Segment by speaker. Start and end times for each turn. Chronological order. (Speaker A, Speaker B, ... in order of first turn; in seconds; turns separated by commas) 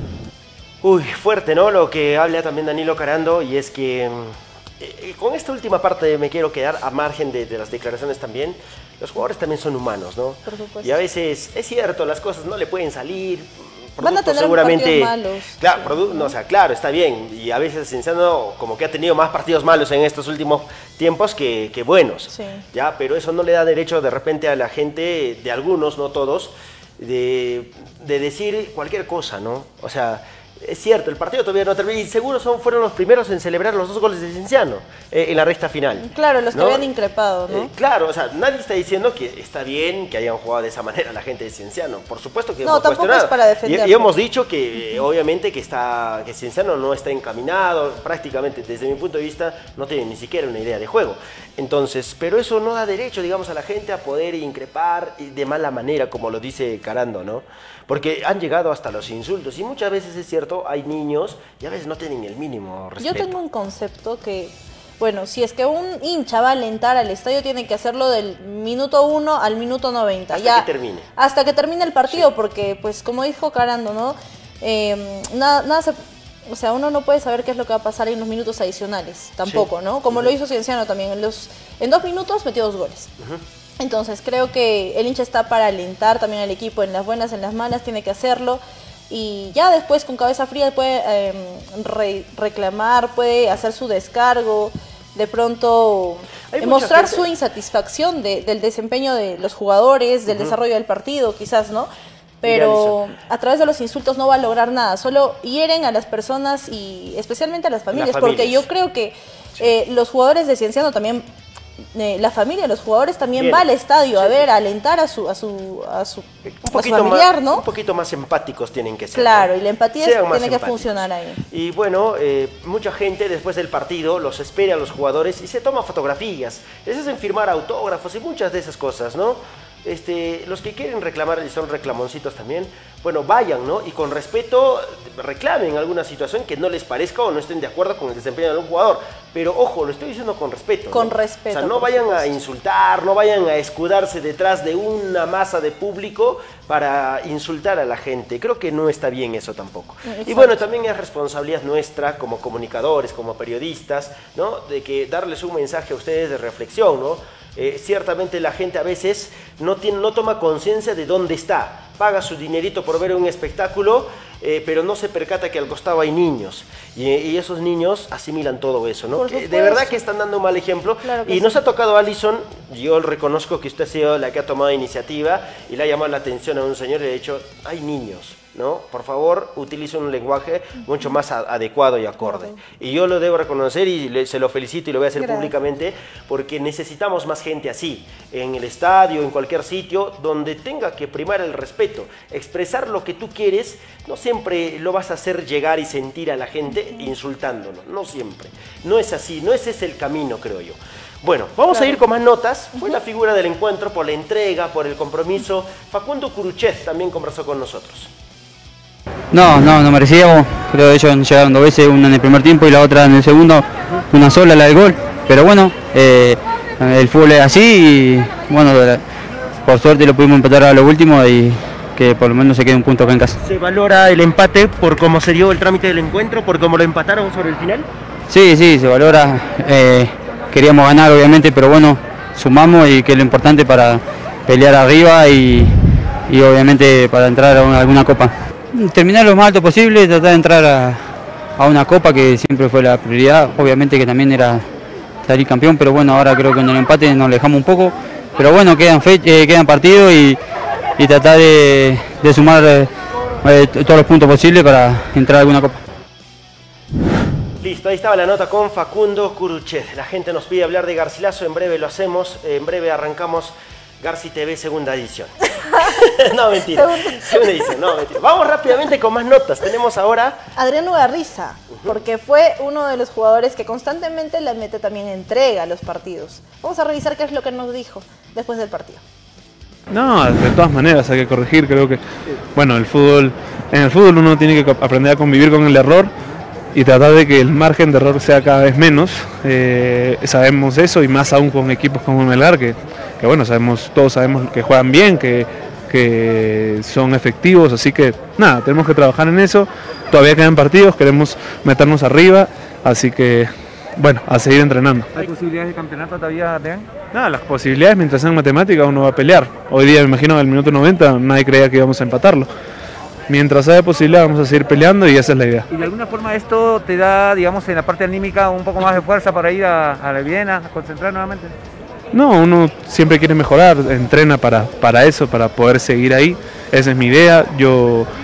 Speaker A: 0.8-36.9, Speaker B: 10.5-11.0, Speaker B: 14.0-16.3, Speaker B: 22.3-22.6, Speaker B: 36.0-37.7, Speaker A: 37.5-63.3, Speaker B: 42.6-44.1, Speaker B: 63.0-83.1, Speaker A: 70.3-71.1, Speaker A: 79.5-80.3, Speaker B: 83.8-101.9, Speaker A: 96.5-97.2, Speaker A: 100.3-100.5, Speaker B: 102.4-111.3, Speaker A: 102.4-103.0, Speaker A: 107.9-108.7, Speaker B: 112.0-117.6, Speaker A: 113.3-113.7, Speaker A: 116.6-208.1, Speaker B: 119.1-121.4, Speaker B: 140.9-142.3, Speaker B: 150.1-150.6, Speaker B: 169.2-169.9, Speaker B: 171.0-171.5, Speaker B: 182.2-182.6, Speaker B: 185.2-185.5, Speaker C: 209.3-219.0, Speaker C: 219.6-223.4, Speaker A: 223.4-227.9, Speaker C: 228.3-235.7, Speaker C: 236.3-241.0, Speaker C: 241.6-244.7, Speaker C: 245.2-250.4, Speaker C: 251.0-252.9, Speaker C: 253.4-255.8, Speaker A: 257.6-270.4, Speaker B: 265.7-266.1, Speaker B: 266.7-267.7, Speaker B: 270.6-279.0, Speaker D: 279.9-282.0, Speaker D: 282.6-286.1, Speaker D: 286.7-305.1, Speaker E: 305.1-306.9, Speaker D: 307.1-312.5, Speaker D: 313.3-315.7, Speaker E: 315.7-321.5, Speaker D: 322.1-328.1